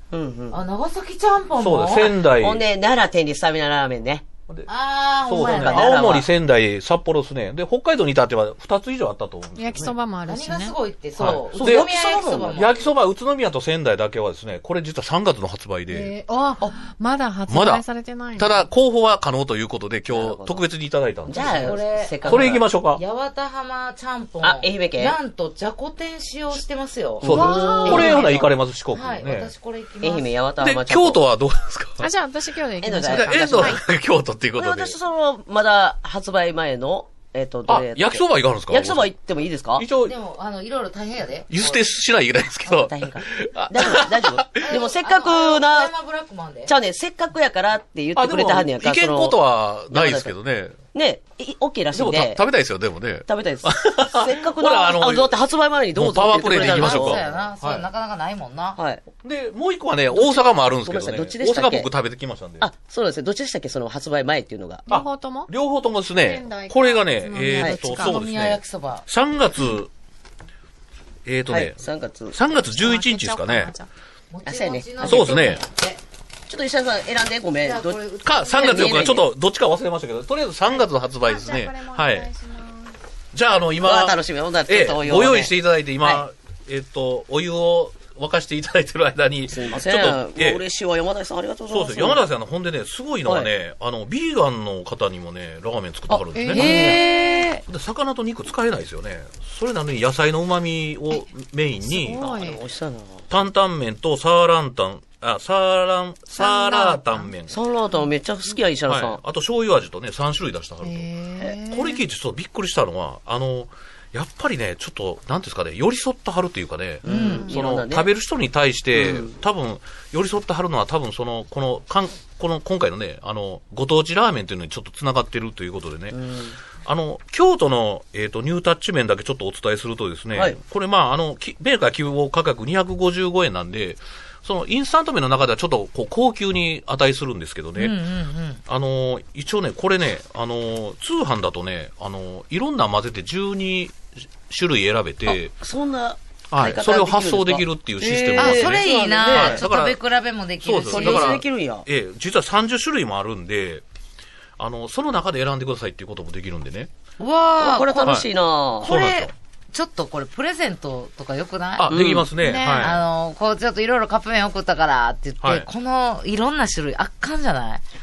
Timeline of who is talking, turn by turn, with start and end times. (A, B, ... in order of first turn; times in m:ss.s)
0:00.1-0:00.6 A
0:00.5-0:02.2 B
0:01.6-0:02.6 C
0:02.2-0:04.2 A
0:04.7-0:06.1 B
0:05.3-0:10.0 C
0:05.4-0:06.3 A
0:09.6-0:10.8 D
0:10.3-0:12.9 B
0:11.2-0:11.9 C
0:11.3-0:12.8 A
0:12.5-0:16.1 C
0:15.9-0:18.6 D
0:17.5-0:17.8 C
0:18.4-0:23.0 C
0:20.1-0:20.6 A
0:21.3-0:22.7 A
0:21.4-0:30.3 B
0:24.4-0:25.2 A
0:27.2-0:28.4 A
0:27.2-0:29.5 C
0:27.3-0:28.1 D
0:30.0-0:31.2 A
0:30.6-0:32.1 C
0:32.0-0:33.8 D
0:32.8-0:33.8 A
0:33.0-0:35.0 C
0:34.6-0:39.9 A
0:37.7-0:39.1 C
0:39.8-0:40.2 C
0:40.0-0:41.8 B
0:41.5-0:44.7 C
0:42.6-0:45.9 A
0:44.6-0:46.7 B
0:46.7-0:49.4 A
0:48.2-0:50.8 C
0:49.9-0:50.3 A
0:50.9-0:52.4 A
0:51.9-0:55.3 C
0:53.3-0:57.2 A
0:56.0-0:57.9 C
0:56.6-0:58.8 B
0:58.8-0:59.0 A
0:59.2-1:02.7 C
1:00.1-1:01.9 A
1:02.6-1:04.9 A
1:04.9-1:09.9 C
1:04.9-1:05.5 D
1:06.2-1:08.2 D
1:07.6-1:07.8 A
1:07.9-1:09.0 B
1:11.3-1:11.8 C
1:11.5-1:12.4 A
1:12.3-1:13.8 C
1:12.7-1:13.9 D
1:14.3-1:16.0 B
1:14.5-1:15.5 A
1:15.0-1:15.6 C
1:16.5-1:18.0 A
1:17.6-1:19.2 B
1:18.2-1:22.3 C
1:18.6-1:19.3 A
1:21.2-1:22.9 D
1:23.3-1:30.6 C
1:23.8-1:26.2 A
1:29.5-1:32.2 A
1:31.7-1:37.0 C
1:33.3-1:33.5 A
1:36.1-1:37.6 A
1:36.5-1:37.6 B
1:37.7-1:42.3 C
1:41.8-1:42.5 D
1:42.2-1:43.3 A
1:43.3-1:47.6 C
1:46.4-1:47.3 D
1:47.5-1:49.2 A
1:48.9-2:06.2 C
1:50.8-1:52.0 D
1:57.0-1:58.1 A
1:57.1-1:57.6 B
1:58.9-1:59.4 A
2:06.1-2:06.6 A
2:06.8-2:18.0 C
2:17.8-2:18.6 B
2:18.7-2:25.5 C
2:25.3-2:29.6 A
2:26.5-2:30.0 C
2:28.4-2:31.4 B
2:30.6-2:33.8 C
2:30.9-2:31.9 A
2:34.6-2:36.9 C
2:37.2-2:38.2 B
2:37.6-2:39.0 A
2:38.8-2:39.3 C
2:38.8-2:42.2 B
2:41.8-2:43.0 C
2:41.9-2:42.3 A
2:42.4-2:43.0 D
2:42.8-2:47.8 B
2:45.4-2:45.7 C